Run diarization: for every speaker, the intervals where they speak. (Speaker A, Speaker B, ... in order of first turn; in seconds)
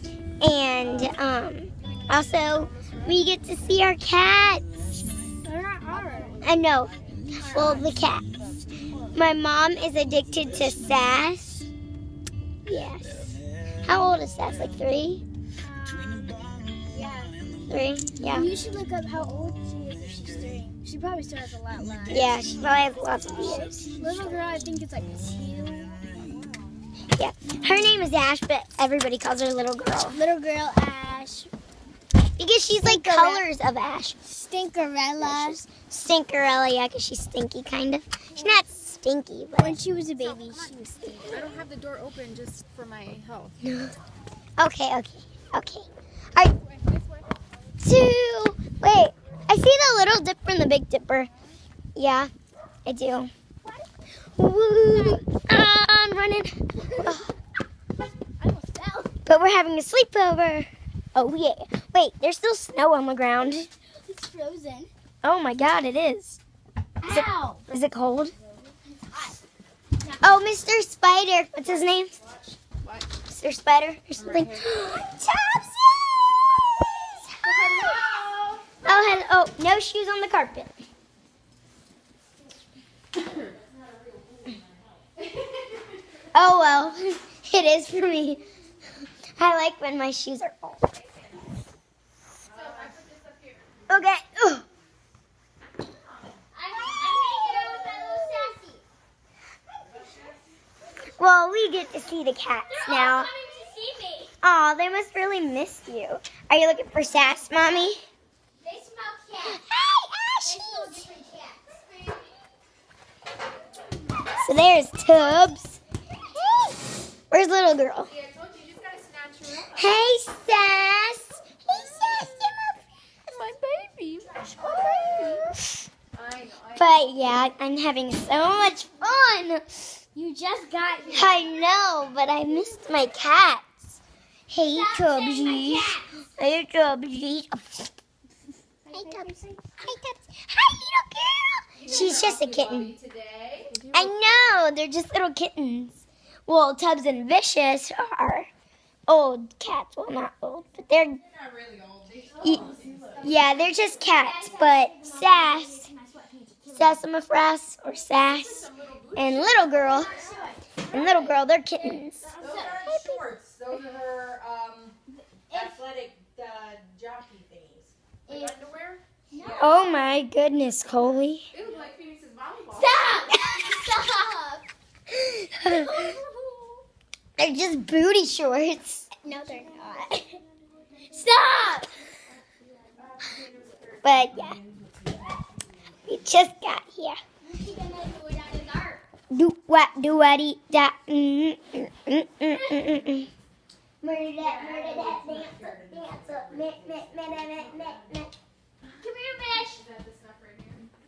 Speaker A: 0.4-4.7, 6.4-8.2, 9.1-11.7, 12.7-15.2, 17.7-18.5, 22.1-23.9, 27.2-30.2, 32.4-34.2, 35.2-39.8, 43.6-43.9, 44.6-46.5, 47.8-51.3, 52.0-52.3, 52.9-53.3, 54.4-57.3, 59.3-63.7, 65.2-66.4, 67.1-68.3, 70.2-72.1, 73.3-77.9, 78.8-80.8, 86.3-88.4, 89.4-90.9, 93.9-94.7, 97.2-98.6, 101.2-103.3, 104.4-108.0, 109.4-111.1, 114.4-115.8, 117.3-118.1, 119.7-122.8, 124.7-125.5, 126.8-129.8, 131.1-134.0, 134.5-137.9, 138.9-142.9, 143.9-148.5, 149.1-151.2, 152.4-155.9, 156.7-160.2, 160.9-162.3, 169.6-171.5, 173.3-173.7, 175.1-176.2, 177.4-179.1, 184.0-184.6, 186.1-187.2, 189.3-193.3, 194.0-198.4
Speaker B: 0.8-1.2, 1.8-3.4, 5.9-7.3, 40.2-43.6, 46.7-47.2, 71.6-73.2, 74.2-74.8, 90.9-91.5, 92.5-94.0, 95.9-97.2, 118.1-120.0, 121.7-122.5, 123.3-124.5, 125.1-125.4, 126.1-127.2, 141.8-144.5, 152.2-153.4, 157.9-160.6, 162.2-162.6, 168.3-169.0, 171.5-173.3, 198.8-200.9
Speaker C: 5.4-6.4, 7.3-7.9, 15.6-17.4, 18.2-22.4, 23.6-26.1, 30.1-31.5, 32.8-33.5, 34.3-35.6, 39.6-41.3, 58.4-59.1, 64.0-64.9, 67.0-67.6, 68.8-69.4, 70.0-70.4, 77.4-78.6, 96.5-98.8, 102.6-104.3, 108.6-109.6, 110.4-112.2, 116.4-116.7, 124.5-125.5, 130.2-131.7, 134.7-136.1, 138.9-139.9, 152.8-157.1, 159.7-161.4, 162.2-163.1, 165.5-165.8, 168.3-168.6, 169.3-170.1, 172.7-174.7, 175.7-176.8, 179.2-180.4, 181.1-181.9, 187.4-189.0, 192.6-192.9, 199.0-199.8
Speaker D: 24.0-24.4, 83.3-85.1, 92.5-93.0, 99.8-100.4, 151.2-153.5, 162.4-165.0, 165.5-167.9, 169.3-169.8, 183.0-186.3, 194.4-198.2